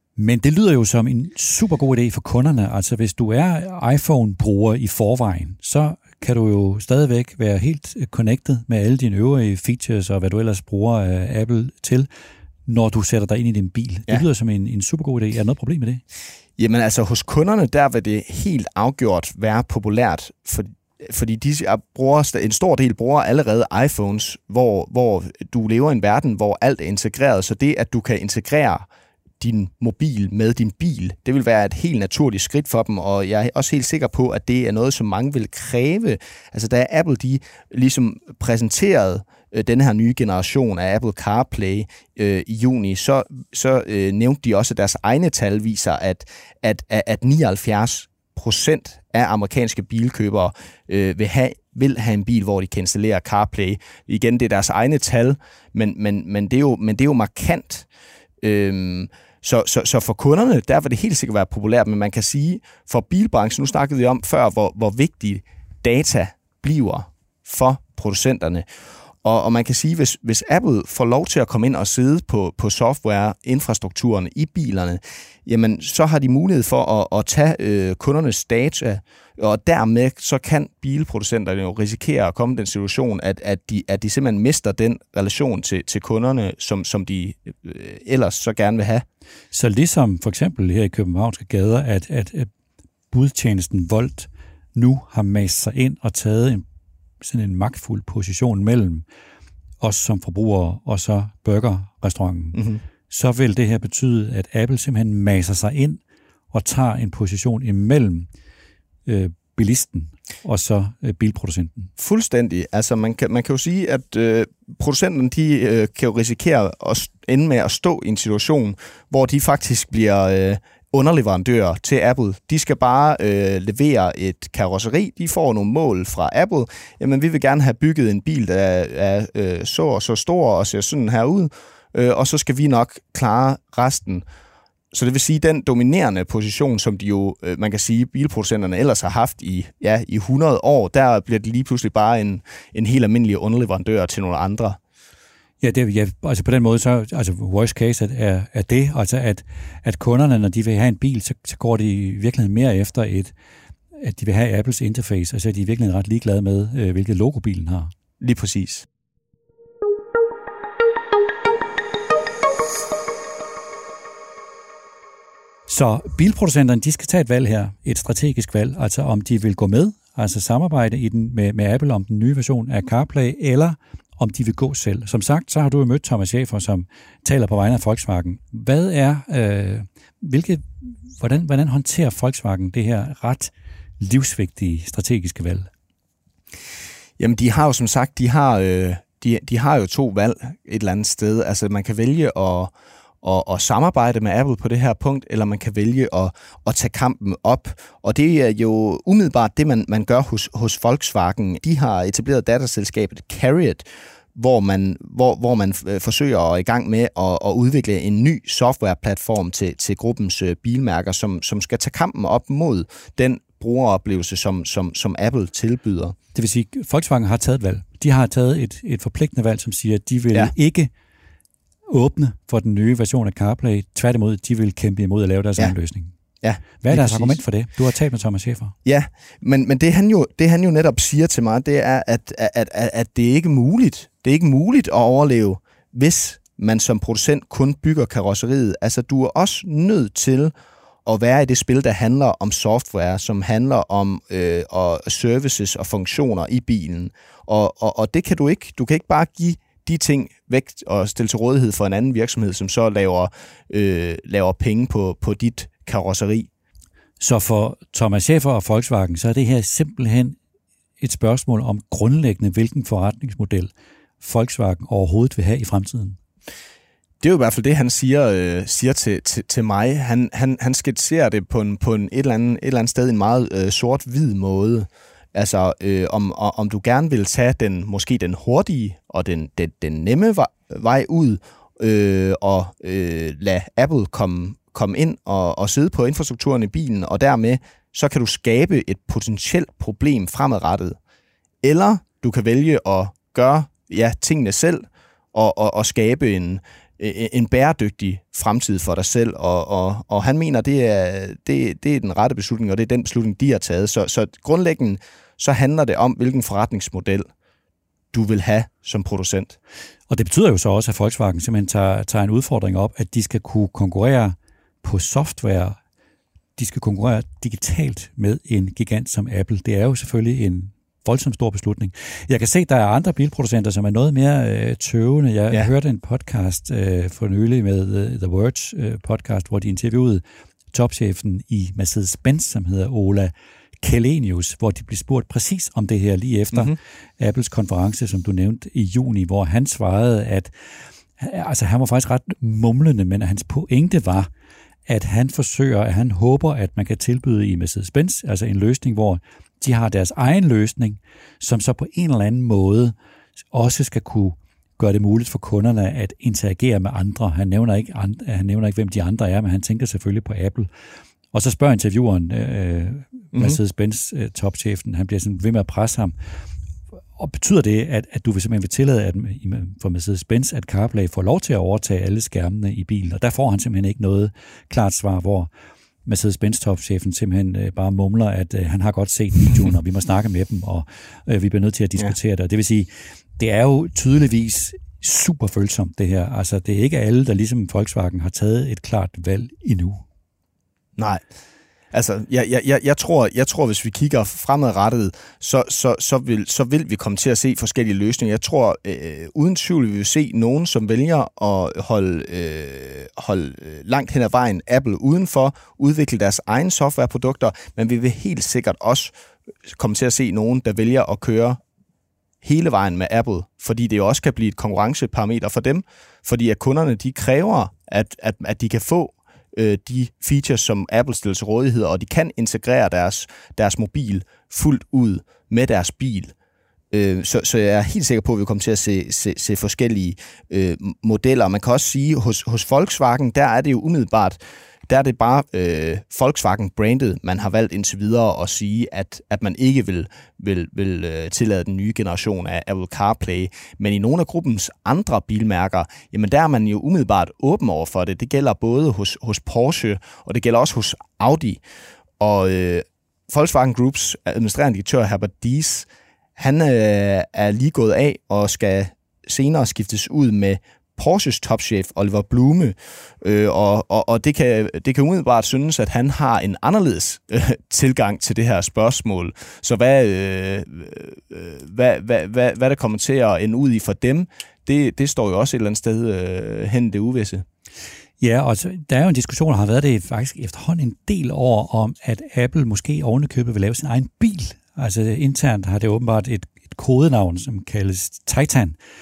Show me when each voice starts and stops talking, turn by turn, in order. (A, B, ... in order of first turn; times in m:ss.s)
0:00.2-0:12.1 A
0:12.6-0:16.0 A
0:16.6-0:28.9 B
0:29.4-0:57.9 B
0:58.4-1:08.6 B
1:09.2-1:29.0 B
1:29.5-1:32.5 A
1:33.1-1:36.6 A
1:37.2-1:39.0 A
1:39.8-1:46.0 A
1:42.5-1:42.8 B
1:46.5-1:48.3 A
1:49.0-1:51.9 A
1:52.0-2:14.2 B
2:14.9-2:24.8 B
2:25.6-2:33.3 A
2:34.0-2:37.9 A
2:38.2-2:38.8 B
2:45.7-3:05.7 A
3:07.2-3:36.2 B
3:36.3-3:40.9 A
3:41.9-3:46.1 A
3:46.4-3:47.4 B
3:46.8-3:48.7 A
3:48.8-4:00.5 B
4:01.0-4:16.5 B
4:17.2-4:20.4 A
4:21.0-4:26.2 A
4:27.2-4:51.0 B
4:51.6-5:07.3 B
5:08.1-5:09.6 B
5:10.1-5:15.8 A
5:16.6-5:30.2 A
5:30.7-5:40.5 A
5:41.2-5:44.3 A
5:44.9-5:52.9 A
5:53.5-6:00.7 A
6:01.3-6:06.1 A
6:03.3-6:03.6 B
6:07.2-6:15.5 A
6:16.0-6:30.0 A
6:31.0-6:31.2 B
6:31.9-6:49.1 B
6:49.7-6:51.6 B
6:52.4-7:06.3 B
7:06.9-7:31.6 B
7:32.2-7:57.4 B
7:58.2-8:08.8 A